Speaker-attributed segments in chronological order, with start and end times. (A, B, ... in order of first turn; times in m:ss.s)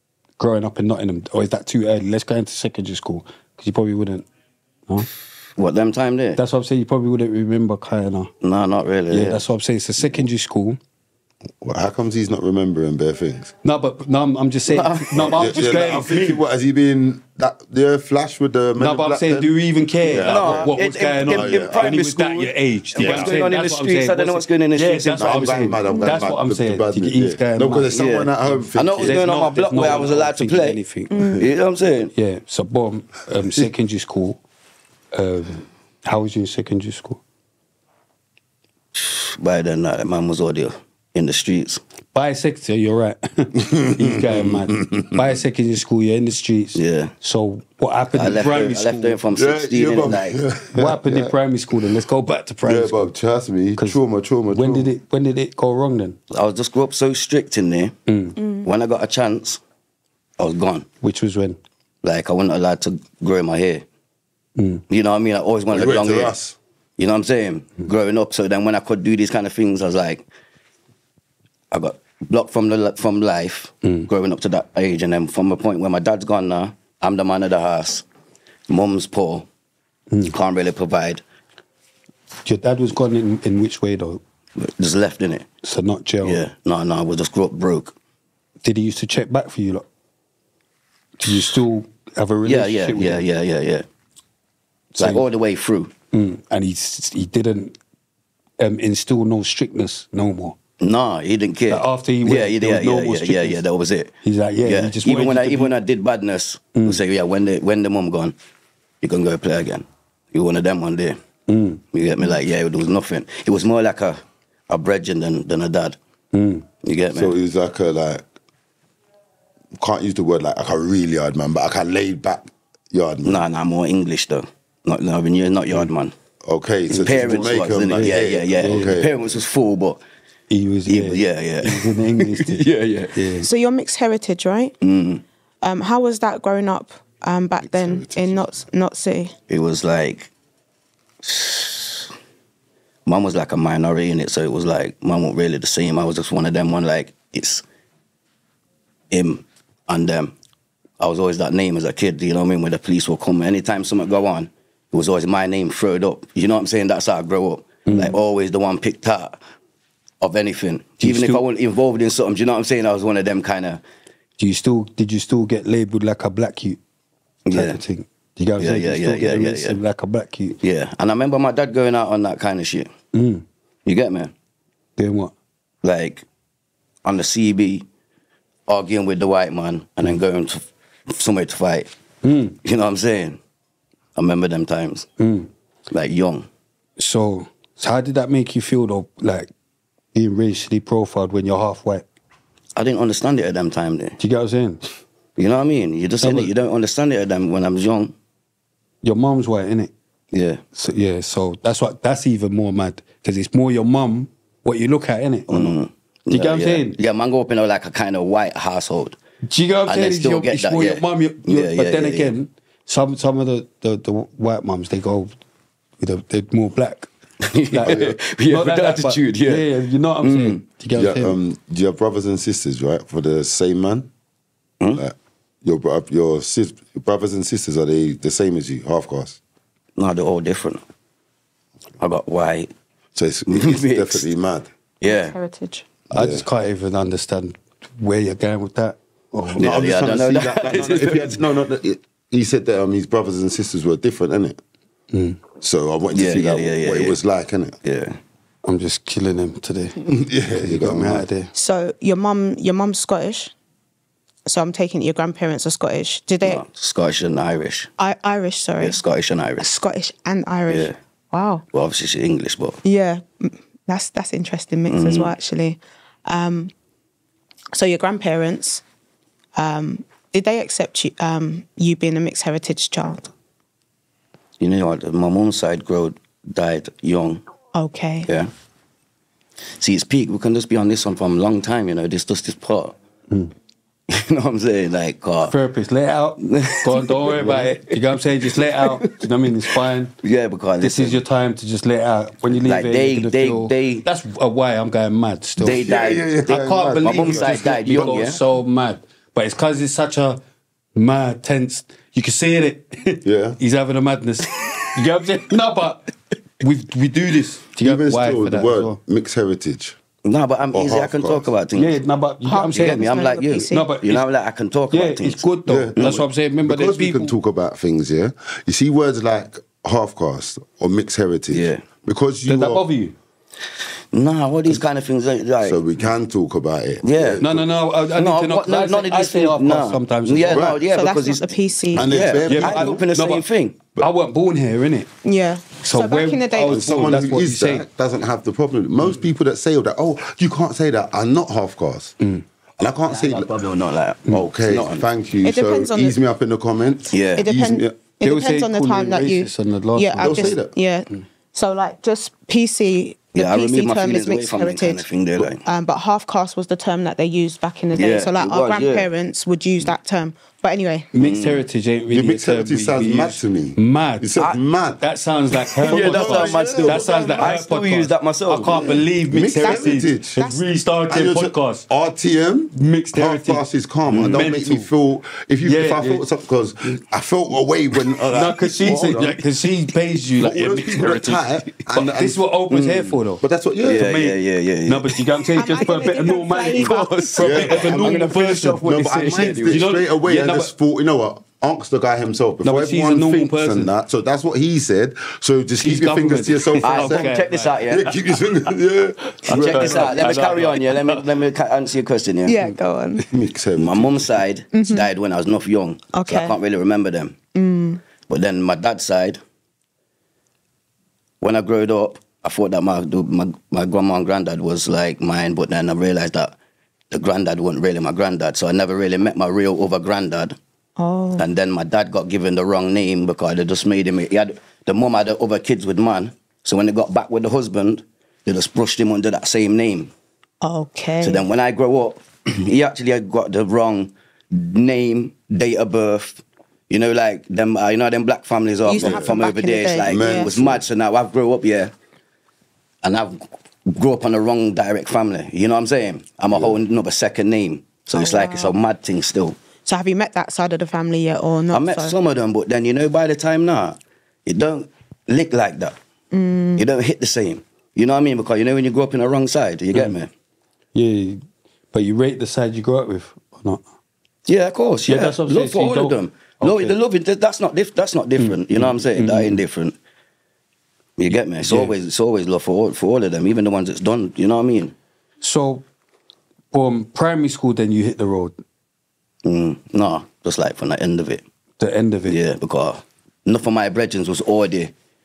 0:00.4-0:04.3 A
0:05.6-0:06.4 B
0:06.4-0:08.3 A
0:08.4-0:09.4 B
0:09.1-0:10.8 A
0:11.6-0:13.5 C
0:13.6-0:16.4 A
0:14.7-0:15.8 B
0:15.1-0:22.0 C
0:18.8-0:27.9 A
0:20.1-0:25.5 B
0:22.9-0:23.4 C
0:25.1-0:29.3 C
0:25.8-0:26.2 D
0:27.9-0:32.1 B
0:29.0-0:31.3 A
0:31.1-0:31.5 D
0:32.1-0:34.4 A
0:35.1-0:37.2 A
0:38.9-0:41.8 B
0:42.1-0:49.2 A
0:43.6-0:45.0 C
0:46.7-0:47.1 B
0:48.1-0:50.4 B
0:49.3-0:51.3 C
0:50.7-0:53.1 A
0:52.6-0:54.9 C
0:53.8-0:56.2 A
0:56.3-0:57.9 B
0:58.1-0:58.4 A
0:58.4-0:58.7 D
0:58.6-0:59.6 B
1:00.4-1:00.8 B
1:01.0-1:01.6 A
1:02.0-1:03.8 B
1:04.6-1:04.8 A
1:04.9-1:06.3 B
1:05.7-1:06.6 C
1:07.0-1:10.2 B
1:11.7-1:18.0 B
1:18.7-1:19.5 B
1:20.3-1:21.2 B
1:22.4-1:24.2 A
1:24.6-1:25.5 B
1:25.6-1:26.4 A
1:26.2-1:27.9 B
1:28.6-1:29.8 A
1:31.2-1:33.2 A
1:31.3-1:31.6 B
1:32.4-1:33.8 B
1:34.9-1:35.2 A
1:35.0-1:35.9 B
1:36.1-1:37.8 A
1:38.6-1:40.6 A
1:40.8-1:44.1 B
1:41.7-1:43.6 A
1:44.2-1:45.7 A
1:44.6-1:48.3 B
1:46.7-1:47.0 A
1:49.0-1:51.2 B
1:51.5-1:51.8 A
1:51.9-1:56.0 B
1:56.3-1:56.6 A
1:56.8-1:57.3 B
1:57.1-1:58.2 C
1:59.8-2:03.4 C
2:03.2-2:06.1 B
2:06.4-2:09.3 C
2:06.9-2:10.0 B
2:08.0-2:09.0 A
2:10.5-2:13.5 A
2:10.9-2:13.2 B
2:13.4-2:14.7 D
2:14.8-2:15.2 B
2:15.6-2:19.3 D
2:17.6-2:18.6 C
2:19.5-2:20.3 B
2:21.2-2:22.1 B
2:23.0-2:27.6 B
2:29.1-2:30.3 B
2:31.0-2:39.4 B
2:37.9-2:38.2 A
2:40.2-2:43.8 B
2:41.0-2:41.4 A
2:44.4-2:46.8 A
2:47.4-2:47.8 B
2:47.5-2:50.6 A
2:48.6-2:49.8 B
2:50.6-2:52.9 B
2:53.1-2:53.4 A
2:53.8-2:54.3 B
2:55.0-2:55.3 A
2:55.8-2:56.2 B
2:57.0-2:57.8 B
2:58.7-3:01.9 B
3:02.2-3:02.6 A
3:02.6-3:03.4 B
3:04.2-3:05.1 B
3:05.2-3:05.5 A
3:05.9-3:06.5 B
3:07.0-3:09.5 A
3:10.1-3:12.0 A
3:12.8-3:14.2 B
3:14.2-3:14.8 A
3:15.4-3:18.1 B
3:16.2-3:16.5 A
3:19.0-3:19.9 A
3:20.3-3:20.6 B
3:20.7-3:25.8 A
3:25.5-3:29.2 B
3:26.3-3:27.0 A
3:29.4-3:35.4 A
3:29.8-3:32.3 B
3:36.0-3:37.1 A
3:37.4-3:39.7 B
3:37.7-3:41.4 A
3:37.8-3:38.2 C
3:40.2-3:40.6 B
3:40.9-3:44.1 C
3:44.9-3:49.4 C
3:50.0-3:50.8 B
3:52.0-3:52.7 B
3:53.1-3:54.7 C
3:53.5-3:54.3 B
3:55.0-3:55.4 B
3:55.0-3:55.9 D
3:56.1-3:56.4 C
3:56.1-3:59.8 A
3:59.5-4:04.6 C
3:59.6-4:01.4 B
4:05.1-4:05.4 A
4:05.6-4:07.8 C
4:06.1-4:07.2 B
4:07.8-4:08.2 B
4:08.6-4:11.5 A
4:10.0-4:11.3 C
4:11.5-4:13.5 D
4:14.4-4:16.6 D
4:16.4-4:17.9 B
4:18.0-4:19.0 D
4:18.8-4:19.7 B
4:19.6-4:21.6 D
4:20.7-4:20.9 B
4:21.7-4:22.8 B
4:22.8-4:26.7 D
4:24.9-4:25.3 B
4:27.7-4:28.8 D
4:29.6-4:33.3 D
4:34.6-4:37.4 B
4:37.7-4:38.3 D
4:39.8-4:42.9 B
4:44.1-4:45.5 B
4:45.4-4:50.1 A
4:46.4-4:47.7 B
4:47.3-4:47.7 C
4:48.6-4:49.2 B
4:50.2-4:51.2 B
4:50.8-4:55.9 A
4:52.6-4:54.0 B
4:55.6-4:58.4 B
4:55.6-4:58.4 C
4:56.4-5:00.4 A
5:00.9-5:09.0 A
5:03.2-5:03.6 C
5:07.8-5:10.0 C
5:10.2-5:12.0 B
5:10.7-5:11.5 C
5:11.7-5:14.2 A
5:12.4-5:13.9 D
5:12.7-5:15.4 B
5:14.9-5:17.3 A
5:15.6-5:22.8 C
5:15.9-5:16.2 B
5:21.5-5:21.8 B
5:22.4-5:23.1 A
5:24.1-5:25.8 B
5:25.6-5:27.7 C
5:27.0-5:27.4 B
5:27.4-5:30.6 A
5:28.1-5:33.8 B
5:30.5-5:30.8 C
5:30.9-5:32.1 D
5:31.9-5:33.0 C
5:32.4-5:33.4 A
5:34.0-5:35.1 A
5:35.2-5:36.8 D
5:35.8-5:37.8 A
5:36.6-5:42.1 C
5:42.8-5:43.5 C
5:43.1-5:45.0 B
5:44.3-5:47.9 C
5:45.4-5:46.2 D
5:47.1-5:47.4 B
5:47.3-6:01.1 D
5:48.2-5:50.6 A
5:50.2-5:50.7 C
5:53.3-5:55.6 B
5:57.9-5:59.1 B
6:01.1-6:11.9 A
6:01.2-6:01.6 B
6:02.1-6:05.0 C
6:05.8-6:07.6 C
6:05.8-6:09.0 B
6:08.8-6:10.4 C
6:09.6-6:10.6 D
6:11.1-6:19.4 C
6:12.7-6:14.9 A
6:14.1-6:14.5 B
6:15.6-6:16.2 A
6:18.3-6:30.7 A
6:20.4-6:22.4 C
6:22.7-6:23.2 B
6:23.4-6:24.1 C
6:23.8-6:25.2 B
6:25.5-6:27.8 D
6:26.6-6:29.9 B
6:27.4-6:40.2 C
6:32.6-6:33.9 A
6:35.8-6:38.4 A
6:36.8-6:38.1 B
6:39.4-6:41.2 A
6:39.5-6:42.6 B
6:42.4-6:43.3 D
6:43.3-6:44.4 C
6:43.8-6:47.4 B
6:44.7-6:45.1 D
6:46.1-6:46.6 D
6:47.5-6:48.0 D
6:48.3-6:49.4 B
6:51.4-6:56.5 B
6:57.1-7:00.6 B
7:01.0-7:01.4 D
7:01.4-7:10.1 B
7:10.6-7:11.5 D
7:11.2-7:21.9 B
7:18.8-7:20.5 D
7:19.0-7:19.4 C
7:20.0-7:20.8 C
7:23.0-7:29.6 B
7:26.5-7:26.8 C
7:28.1-7:28.8 D
7:29.8-7:32.2 D
7:31.7-7:36.0 B
7:36.3-7:36.8 D
7:36.8-7:40.3 B
7:40.9-7:43.8 A
7:44.4-7:50.0 B
7:45.1-7:47.0 A
7:48.4-7:49.6 A
7:51.2-7:54.9 B
7:51.6-7:51.9 A
7:55.4-7:55.8 A
7:56.7-7:58.6 A
7:59.4-8:01.4 B
8:01.8-8:02.4 A
8:02.2-8:04.9 B